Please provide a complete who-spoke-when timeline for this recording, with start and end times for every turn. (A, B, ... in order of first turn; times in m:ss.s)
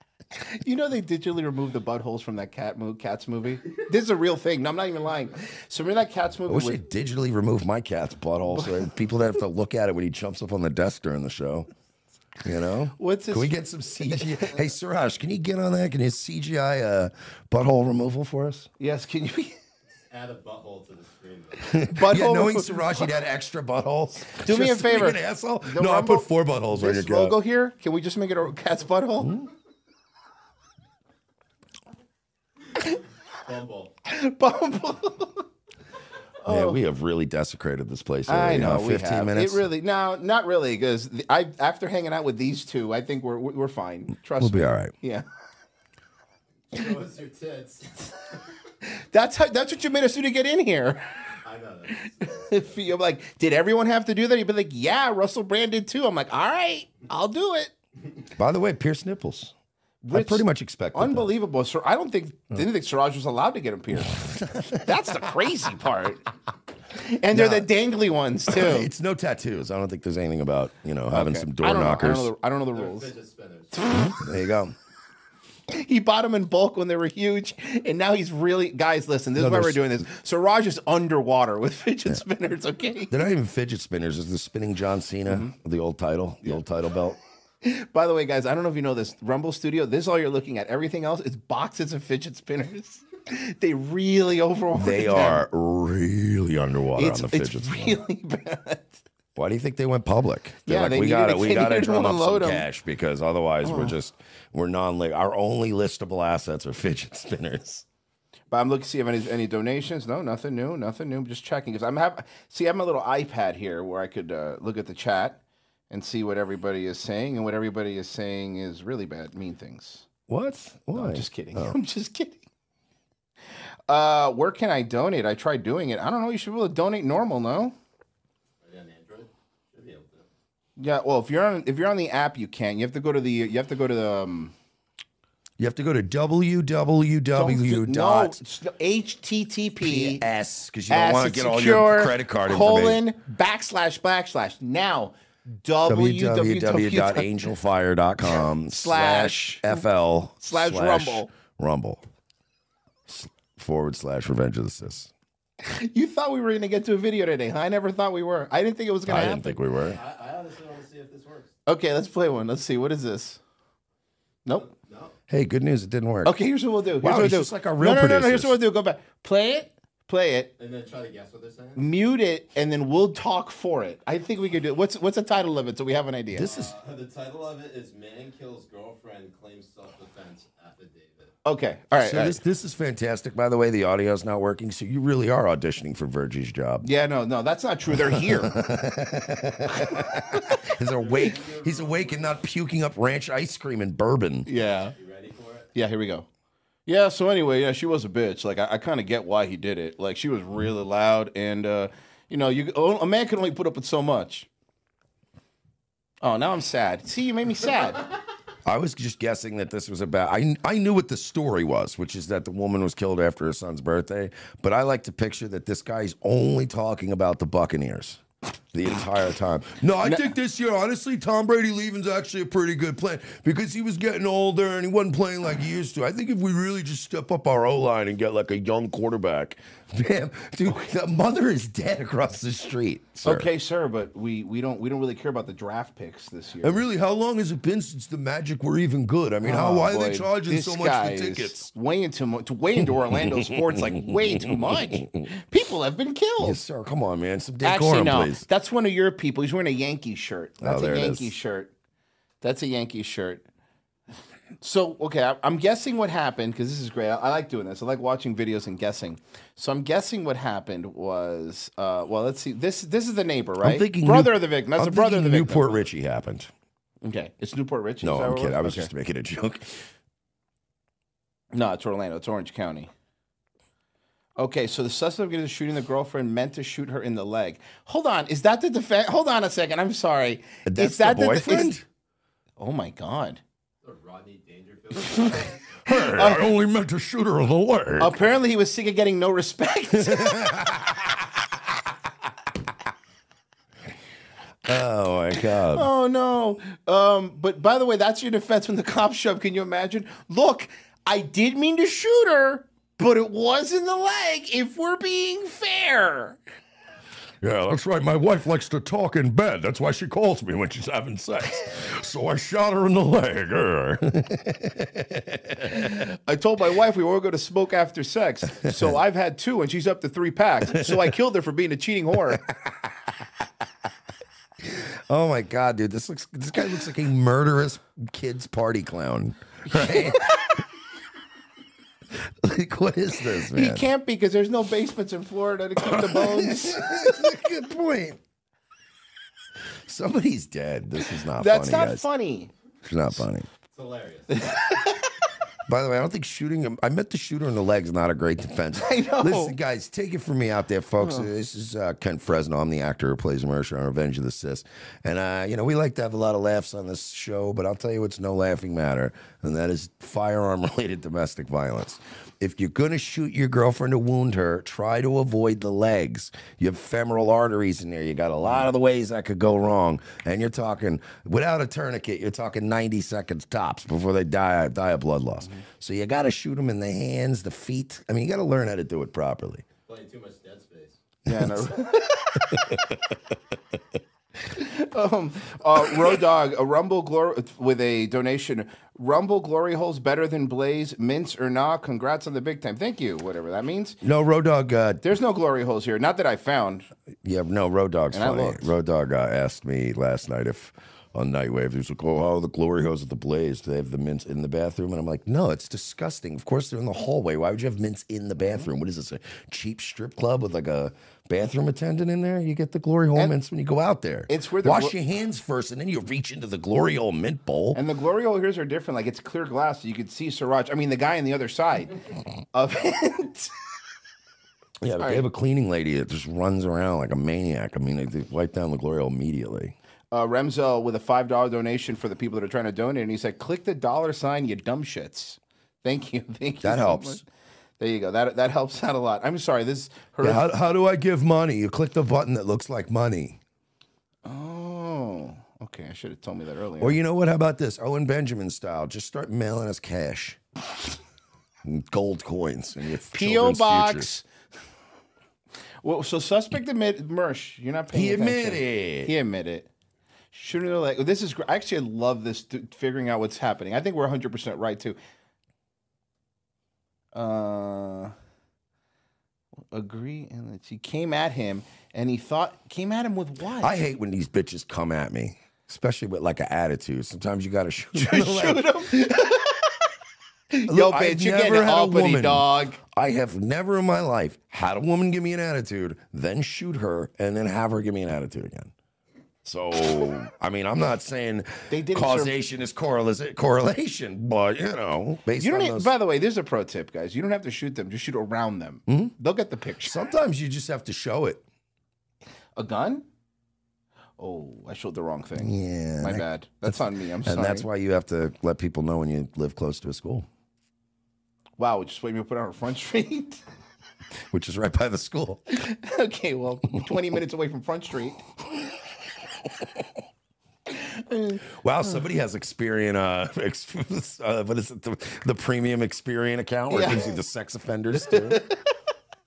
0:00.3-0:06.8 A
0:06.5-0:11.7 B
0:08.5-0:08.8 A
0:12.4-0:18.7 B
0:13.0-0:14.6 A
0:18.8-0:19.6 A
0:20.1-0:21.8 C
0:21.7-0:27.4 B
0:21.9-0:23.1 A
0:24.4-0:29.4 A
0:29.2-0:29.5 B
0:33.4-0:33.9 C
0:34.0-0:35.4 A
0:36.4-0:36.8 A
0:36.4-0:39.6 B
0:38.3-0:45.2 A
0:44.4-0:44.9 B
0:46.7-0:48.4 C
0:48.8-0:51.0 A
0:51.4-0:52.7 C
0:52.0-0:57.7 A
0:58.3-0:59.5 B
1:00.0-1:06.3 A
1:00.1-1:01.3 B
1:04.1-1:04.9 B
1:06.9-1:08.9 A
1:07.3-1:07.7 B
1:08.5-1:12.3 B
1:11.1-1:13.1 A
1:12.7-1:13.8 C
1:13.8-1:14.1 A
1:14.0-1:14.7 B
1:15.7-1:23.2 A
1:19.4-1:19.9 B
1:23.1-1:27.2 B
1:25.3-1:25.5 A
1:27.6-1:35.4 A
1:34.7-1:38.0 B
1:37.0-1:39.0 A
1:39.4-1:47.8 B
1:40.6-1:42.6 A
1:43.6-1:43.9 A
1:48.5-2:00.0 A
2:00.3-2:01.8 B
2:00.9-2:02.4 A
2:03.9-2:07.7 A
2:08.6-2:10.2 C
2:10.8-2:14.5 A
2:15.6-2:18.4 B
2:17.3-2:20.2 A
2:19.8-2:23.0 B
2:20.9-2:27.3 A
2:25.8-2:32.0 B
2:28.6-2:29.8 A
2:30.4-2:31.3 A
2:33.1-2:35.1 B
2:35.6-2:39.6 A
2:39.0-2:40.0 B
2:39.9-2:41.5 C
2:41.6-2:43.4 A
2:44.6-2:45.1 C
2:45.3-2:46.4 B
2:46.2-2:50.5 A
2:47.0-2:48.6 B
2:50.6-2:51.8 C
2:51.8-2:56.5 A
2:56.3-2:56.7 B
2:56.4-3:01.3 C
3:01.4-3:02.4 A
3:02.0-3:06.9 B
3:06.8-3:08.6 A
3:07.9-3:14.5 B
3:09.8-3:10.5 A
3:10.8-3:12.4 C
3:14.4-3:14.9 A
3:14.9-3:15.7 C
3:15.7-3:16.2 A
3:16.8-3:24.5 A
3:26.2-3:28.0 A
3:28.6-3:53.5 B
3:40.0-3:40.3 A
3:53.2-3:56.8 A
3:56.6-4:01.7 B
3:59.4-4:06.6 A
4:03.1-4:05.2 B
4:06.4-4:08.4 B
4:07.6-4:11.7 A
4:10.6-4:11.4 B
4:12.4-4:13.4 A
4:14.6-4:25.8 A
4:23.6-4:26.5 B
4:27.0-4:28.9 A
4:28.0-4:29.9 B
4:31.5-4:32.9 A
4:34.4-4:41.8 A
4:40.6-4:41.8 B
4:42.6-4:43.4 A
4:43.8-4:45.6 C
4:45.8-4:48.2 B
4:46.0-4:46.4 A
4:48.0-4:50.5 A
4:50.0-4:51.0 B
4:54.6-4:55.9 B
4:55.7-5:06.4 A
5:07.4-5:16.1 B
5:16.0-5:22.4 A
5:20.7-5:21.0 B
5:24.7-5:30.4 B
5:29.7-5:30.5 A
5:32.2-5:33.9 B
5:33.5-5:37.2 A
5:35.8-5:38.2 B
5:39.8-5:42.0 B
5:41.3-5:42.5 A
5:42.8-5:43.5 B
5:43.7-5:44.5 C
5:44.3-5:45.0 A
5:45.6-6:19.6 B
5:48.7-5:49.6 A
5:51.0-5:51.3 A
6:19.9-6:21.0 C
6:21.2-6:22.4 A
6:21.3-6:21.7 B
6:22.5-6:22.9 B
6:24.5-6:34.0 A
6:34.0-6:35.0 B
6:35.0-6:36.9 A
6:37.2-6:57.8 B
6:38.1-6:38.7 A
6:54.3-6:54.9 A
6:57.7-7:02.0 A
7:02.5-7:03.5 A
7:04.8-7:09.7 B
7:05.0-7:05.2 A
7:10.1-7:17.2 A
7:16.6-7:17.2 B
7:17.8-7:20.5 A
7:20.2-7:23.4 B
7:24.2-7:27.0 A
7:26.8-7:30.4 B
7:31.6-7:34.1 B
7:33.1-7:34.2 A
7:35.8-7:39.7 A
7:37.9-7:39.1 B
7:40.3-7:45.0 A
7:47.1-7:48.1 A
7:49.7-7:53.8 A
7:53.6-7:58.9 B
7:57.9-7:59.7 A
8:00.5-8:02.8 A
8:00.7-8:08.7 B
8:09.4-8:15.9 B
8:11.7-8:12.3 A
8:15.4-8:20.0 A
8:18.9-8:19.1 B
8:19.8-8:21.4 B
8:22.6-8:23.0 A
8:24.2-8:27.6 A
8:25.4-8:30.3 B
8:31.6-8:33.4 A
8:34.3-8:35.4 B
8:35.5-8:38.2 A
8:40.7-8:41.4 A
8:41.5-8:48.4 B
8:46.7-8:47.1 A
8:48.1-8:48.6 A